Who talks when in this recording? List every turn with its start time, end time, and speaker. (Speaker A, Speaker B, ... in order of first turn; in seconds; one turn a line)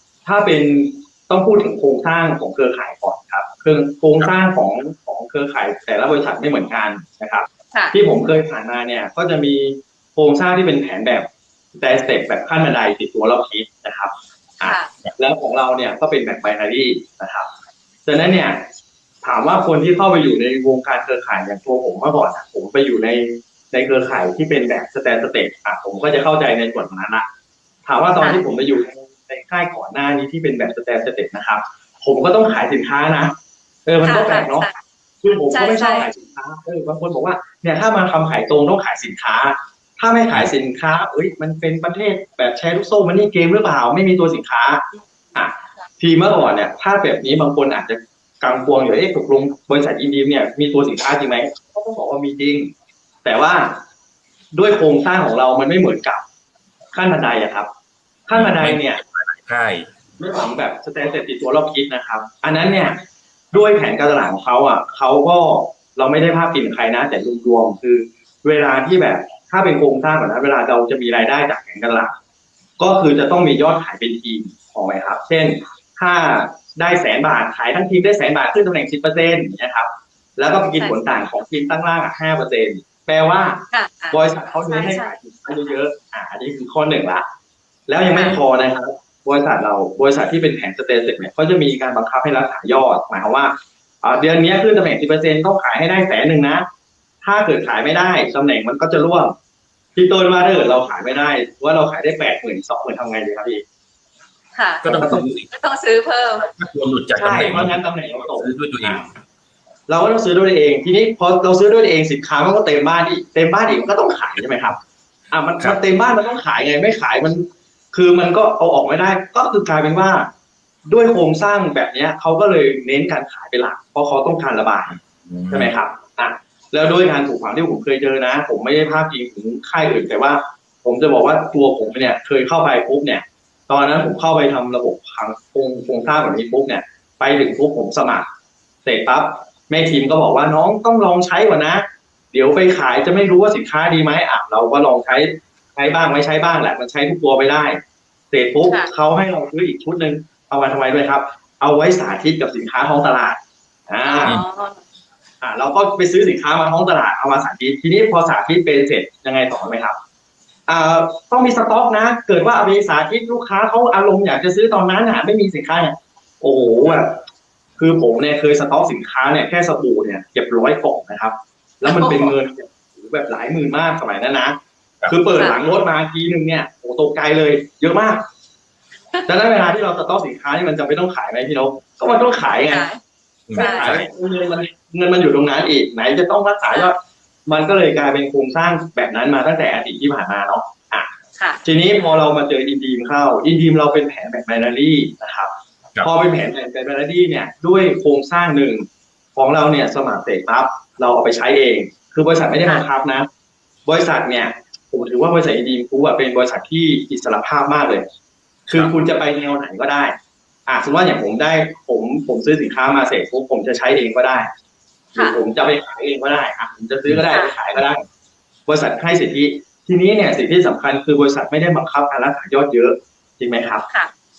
Speaker A: 0.3-17.5
Speaker B: 14.6-14.9
Speaker A: 18.1-18.7
Speaker A: 19.2-27.2
Speaker A: 27.9-34.7
Speaker B: 34.0-34.7
Speaker A: 35.2-44.8
Speaker B: 35.5-36.1
Speaker A: 45.4-52.7
Speaker A: 53.2-53.8
Speaker A: 54.5-56.2
Speaker A: 56.9-57.7
Speaker A: 58.3-59.0
Speaker C: 58.3-59.9
Speaker A: 60.2-63.0
Speaker A: 63.5-72.2
Speaker A: 72.8-87.2
Speaker B: 83.7-85.1
Speaker A: 87.9-96.7
Speaker B: 88.1-88.4
Speaker A: 97.2-99.3
Speaker A: 100.0-103.6
Speaker B: 104.5-106.5
Speaker C: 104.8-105.5
Speaker A: 104.9-105.2
Speaker C: 106.6-107.8
Speaker A: 107.2-109.1
Speaker C: 108.3-109.1
Speaker A: 109.9-114.8
Speaker A: 115.3-120.3
Speaker A: 120.9-125.0
Speaker C: 124.9-125.7
Speaker A: 125.5-138.3
Speaker A: 138.8-147.8
Speaker A: 148.3-154.3
Speaker B: 148.6-148.9
Speaker B: 154.0-154.8
Speaker A: 155.4-160.0
Speaker A: 160.7-167.2
Speaker A: 167.8-178.3
Speaker B: 171.8-172.4
Speaker B: 175.3-175.6
Speaker B: 179.1-179.6
Speaker A: 179.3-182.9
Speaker B: 182.7-183.0
Speaker C: 183.5-184.1
Speaker B: 183.6-184.0
Speaker A: 183.6-191.1
Speaker B: 191.4-191.6
Speaker A: 191.7-203.3
Speaker A: 203.9-208.1
Speaker A: 208.7-210.2
Speaker A: 210.7-214.5
Speaker A: 215.2-218.1
Speaker A: 218.7-223.8